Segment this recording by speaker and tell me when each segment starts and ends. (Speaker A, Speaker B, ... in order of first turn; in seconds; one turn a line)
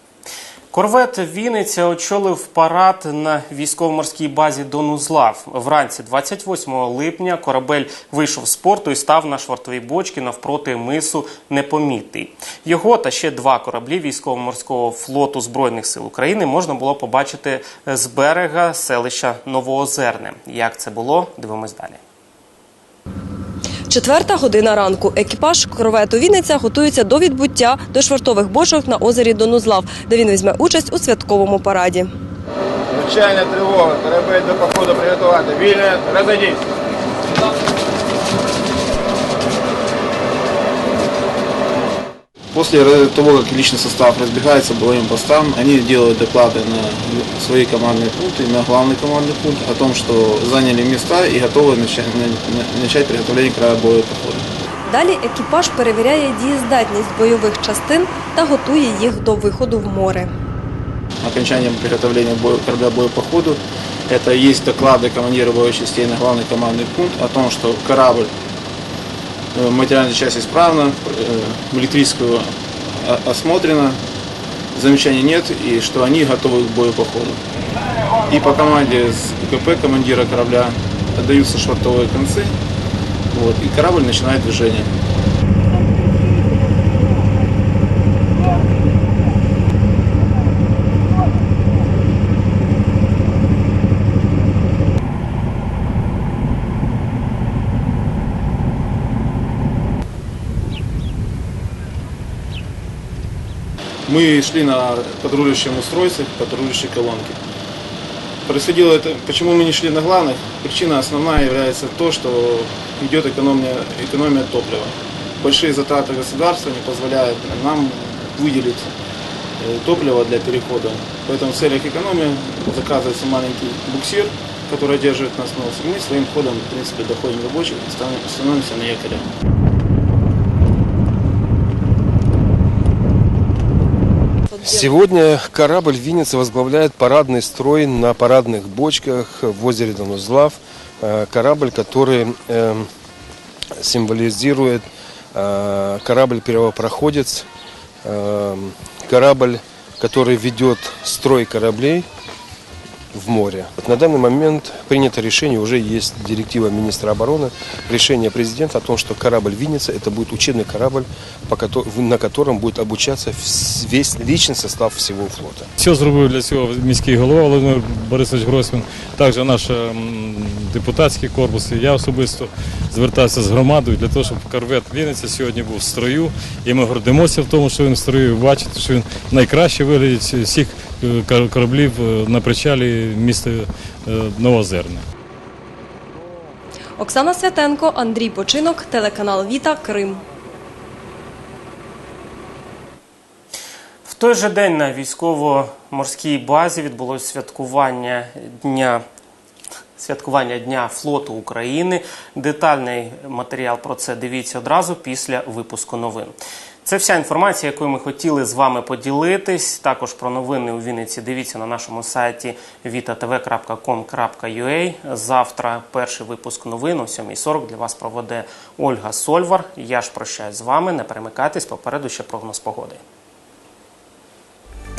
Speaker A: 0.7-22.0
Speaker B: 23.9-32.1
Speaker C: 32.9-35.0
Speaker C: 35.5-36.5
Speaker C: 42.5-54.4
Speaker B: 54.9-60.3
Speaker C: 61.2-68.3
Speaker C: 69.5-72.5
Speaker C: 73.0-74.0
Speaker C: 74.7-77.4
Speaker C: 78.3-82.5
Speaker C: 83.3-84.9
Speaker C: 104.1-107.4
Speaker C: 108.5-118.9
Speaker C: 119.6-129.2
Speaker B: 134.5-134.8
Speaker D: 134.6-142.9
Speaker D: 143.8-147.4
Speaker D: 148.0-152.1
Speaker D: 153.1-165.7
Speaker E: 165.8-185.0
Speaker B: 187.0-190.2
Speaker A: 194.0-199.0
Speaker A: 200.0-223.0